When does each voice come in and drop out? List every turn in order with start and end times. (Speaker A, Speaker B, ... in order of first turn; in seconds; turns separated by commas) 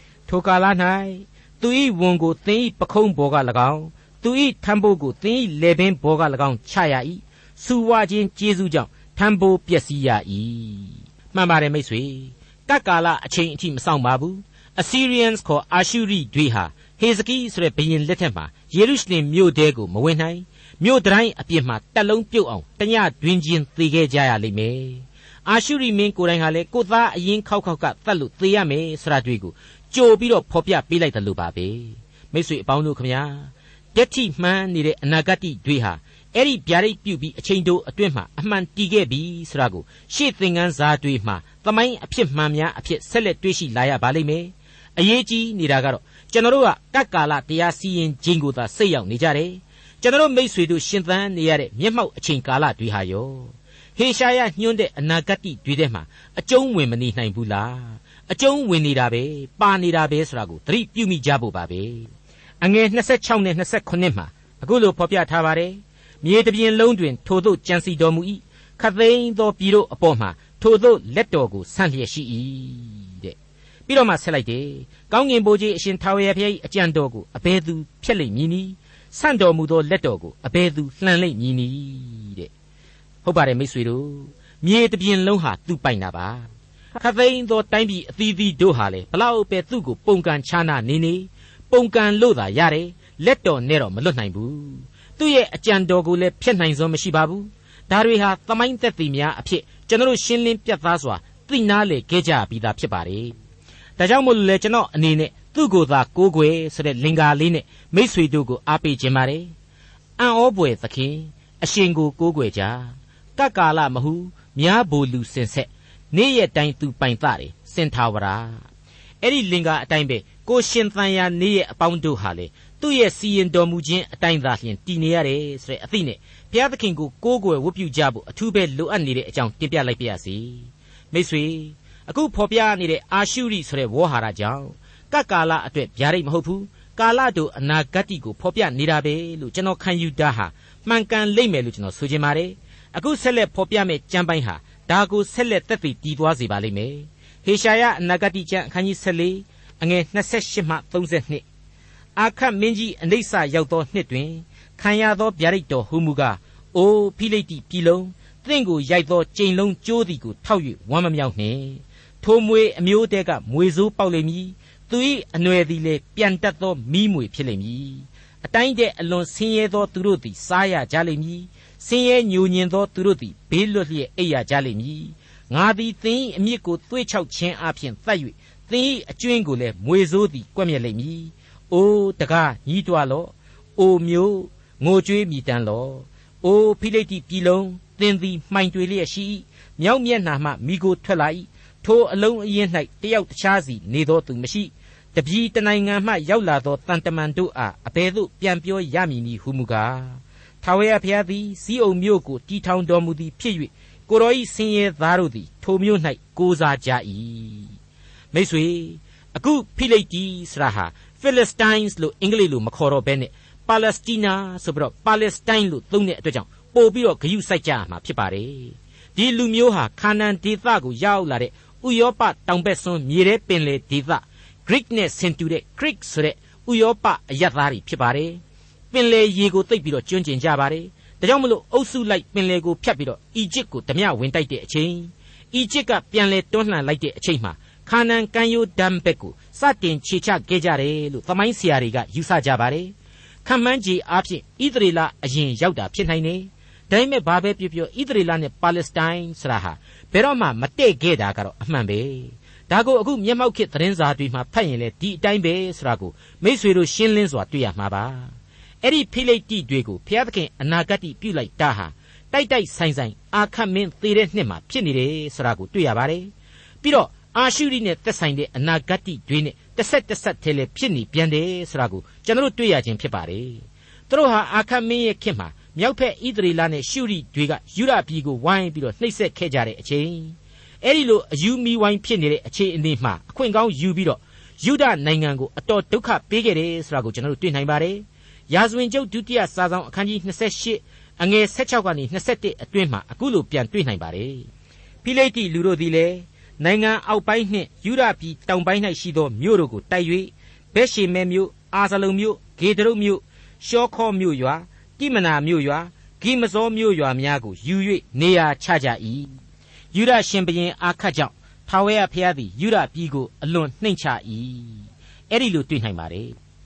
Speaker A: 0.3-73.3, Speaker A: 73.9-82.5, Speaker A: 83.2-103.3, Speaker A: 104.0-109.5, Speaker A: 110.2-118.6, Speaker A: 119.2-151.4, Speaker A: 152.2-207.8, Speaker A: 208.3-228.4, Speaker A: 228.9-242.9, Speaker A: 243.4-266.3, Speaker A: 266.8-294.5, Speaker A: 295.0-309.3, Speaker A: 309.9-316.4